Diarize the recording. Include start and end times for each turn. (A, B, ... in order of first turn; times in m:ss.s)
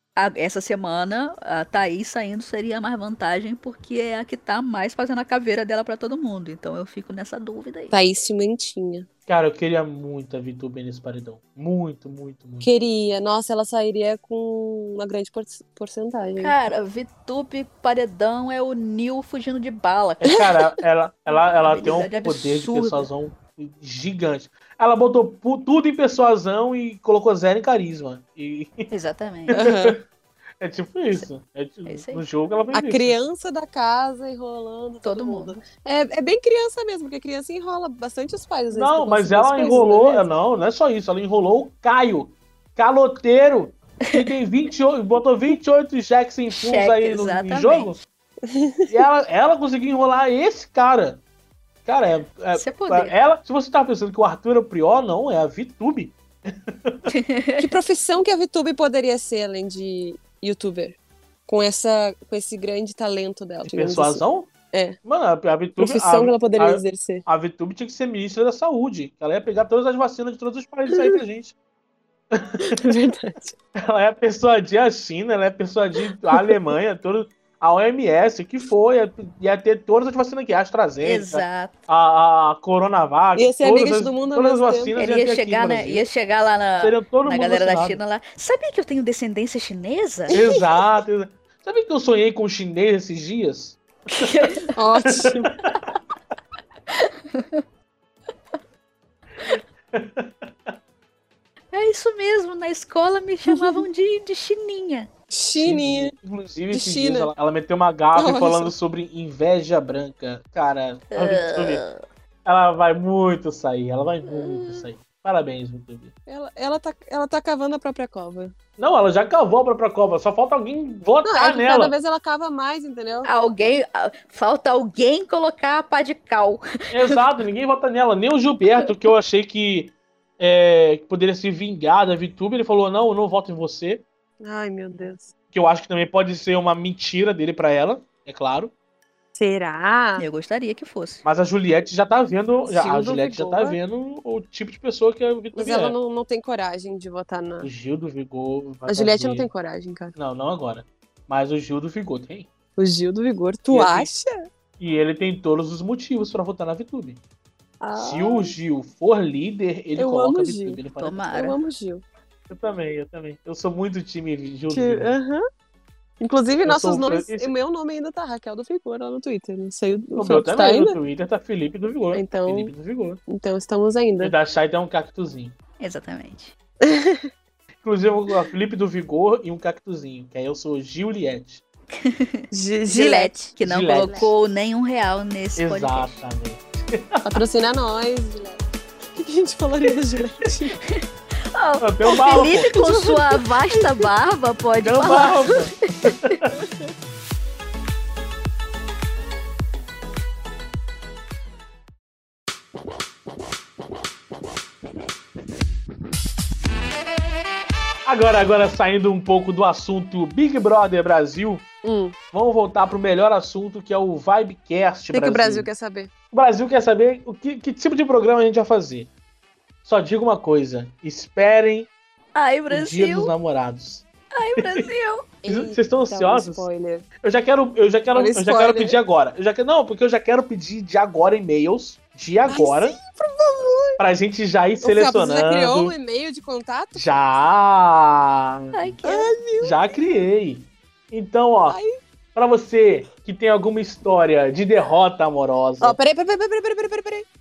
0:00.2-0:08.0 A
0:07.9-0:09.1 B
0:09.3-0:12.7 C
0:12.6-0:16.5 B
0:16.4-0:20.4 A
0:20.2-0:28.9 C
0:21.3-0:23.1 A
0:28.9-0:29.6 A
0:29.5-0:30.0 C
0:29.5-0:30.0 B
0:30.6-0:33.2 C
0:31.8-0:32.2 A
0:32.7-0:40.2 B
0:35.0-0:35.6 A
0:38.7-0:48.0 C
0:46.5-0:48.0 A
0:48.5-0:48.9 B
0:48.9-0:51.2 C
0:51.8-0:57.0 C
0:52.5-0:53.1 A
0:57.1-0:57.7 A
0:57.6-1:05.0 B
1:03.6-1:04.5 C
1:05.0-1:11.6 C
1:05.8-1:07.2 B
1:12.3-1:12.9 C
1:12.6-1:13.6 B
1:13.8-1:26.0 C
1:21.0-1:21.8 A
1:23.4-1:25.0 B
1:25.0-1:30.4 A
1:26.8-1:28.0 C
1:30.3-1:34.3 C
1:30.3-1:30.6 B
1:34.1-1:34.8 A
1:34.8-1:35.5 B
1:35.0-1:35.8 C
1:36.9-1:37.6 A
1:39.9-1:40.7 C
1:41.7-1:45.1 A
1:43.5-1:43.8 B
1:45.3-1:46.1 B
1:45.5-1:51.8 C
1:46.7-1:47.3 B
1:48.1-1:48.7 B
1:51.1-1:52.0 A
1:52.4-1:56.1 C
1:54.2-1:54.8 A
1:56.3-1:58.5 B
1:58.8-2:01.9 C
2:01.2-2:03.3 B
2:03.2-2:07.2 A
2:06.9-2:14.0 C
2:14.4-2:15.3 B
2:15.5-2:18.7 C
2:19.3-2:20.2 B
2:20.2-2:21.2 A
2:21.2-2:26.0 C
2:22.7-2:23.8 B
2:25.5-2:27.7 B
2:27.6-2:29.5 C
2:28.9-2:30.1 B
2:30.1-2:32.5 C
2:32.8-2:34.4 B
2:33.7-2:34.1 C
2:34.8-2:37.2 C
2:37.8-2:38.5 B
2:37.9-2:41.2 C
2:40.0-2:40.8 B
2:41.0-2:41.6 A
2:41.3-2:42.0 B
2:42.5-2:45.1 C
2:44.7-2:45.4 B
2:46.2-2:51.0 B
2:46.6-2:47.5 C
2:50.2-2:53.2 C
2:52.1-2:52.7 B
2:53.3-2:54.3 B
2:54.2-2:55.6 C
2:55.8-2:56.6 A
2:56.8-2:57.3 B
2:57.8-3:01.6 C
3:01.9-3:06.2 A
3:02.5-3:03.5 B
3:03.6-3:04.3 C
3:05.6-3:07.4 C
3:07.2-3:08.6 B
3:09.1-3:10.8 B
3:10.9-3:16.4 A
3:11.8-3:12.7 C
3:12.7-3:14.0 B
3:14.8-3:16.5 C
3:16.5-3:16.9 B
3:28.0-3:31.6 C
3:31.8-3:32.1 B
3:32.3-3:35.7 C
3:35.1-3:36.1 B
3:36.3-3:39.1 C
3:39.8-3:41.9 C
3:42.3-3:43.3 A
3:42.7-3:44.0 C
3:44.3-3:45.3 A
3:44.6-3:44.9 C
3:45.4-3:47.0 B
3:45.5-3:46.7 C
3:47.2-3:53.0 C
3:48.1-3:49.0 B
3:52.5-3:54.0 B
3:54.0-3:55.9 C
3:54.8-3:57.1 B
3:56.9-3:58.8 C
3:58.7-3:59.3 A
3:59.0-4:00.0 B
3:59.6-4:01.8 C
4:01.7-4:02.0 B
4:02.3-4:06.0 C
4:05.8-4:07.2 B